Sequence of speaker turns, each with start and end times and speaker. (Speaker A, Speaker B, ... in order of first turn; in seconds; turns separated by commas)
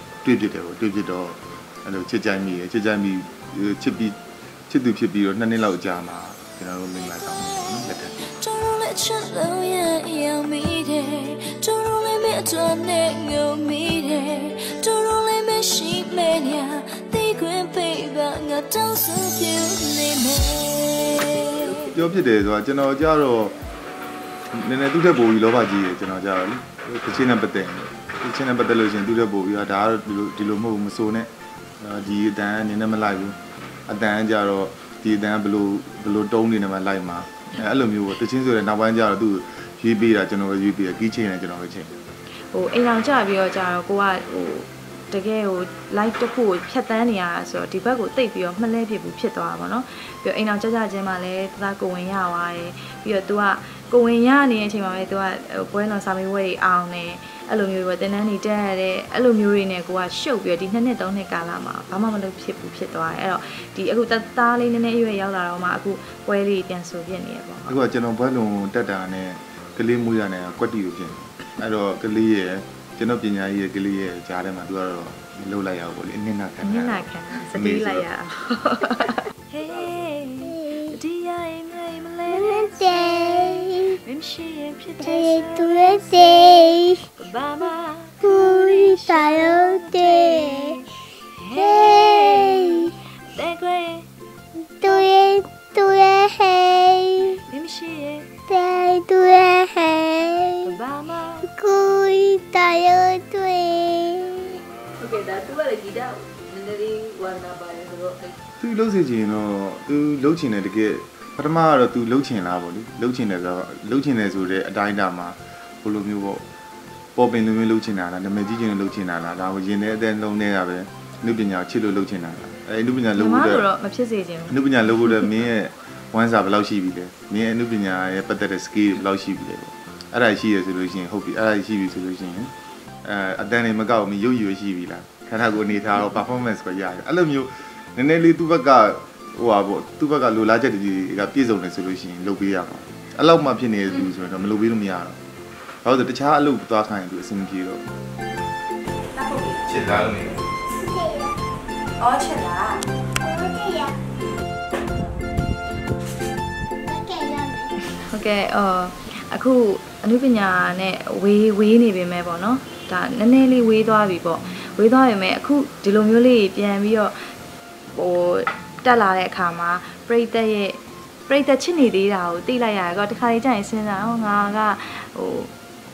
Speaker A: 0.2-8.2, Speaker B: 7.1-21.9, Speaker A: 21.9-23.6, Speaker A: 24.5-31.3, Speaker A: 31.8-41.9, Speaker C: 42.5-67.8, Speaker A: 67.7-78.1, Speaker C: 76.6-94.1, Speaker D: 79.6-80.0, Speaker E: 80.5-80.9, Speaker E: 82.3-84.0, Speaker E: 85.0-87.0, Speaker E: 88.2-90.7, Speaker E: 91.5-92.9, Speaker E: 94.8-97.4, Speaker C: 94.8-95.2, Speaker C: 97.2-98.3, Speaker E: 98.5-100.7, Speaker C: 100.6-101.5, Speaker E: 101.5-104.6, Speaker D: 105.0-108.4, Speaker A: 108.6-116.4, Speaker A: 117.2-123.7, Speaker C: 123.2-125.2, Speaker A: 124.5-132.5, Speaker A: 133.0-145.2, Speaker A: 145.8-147.8, Speaker C: 149.1-149.8, Speaker A: 149.7-150.4, Speaker E: 150.7-151.3, Speaker C: 152.0-152.8, Speaker E: 153.2-153.9, Speaker E: 156.8-157.7, Speaker C: 157.9-167.1, Speaker C: 167.9-175.5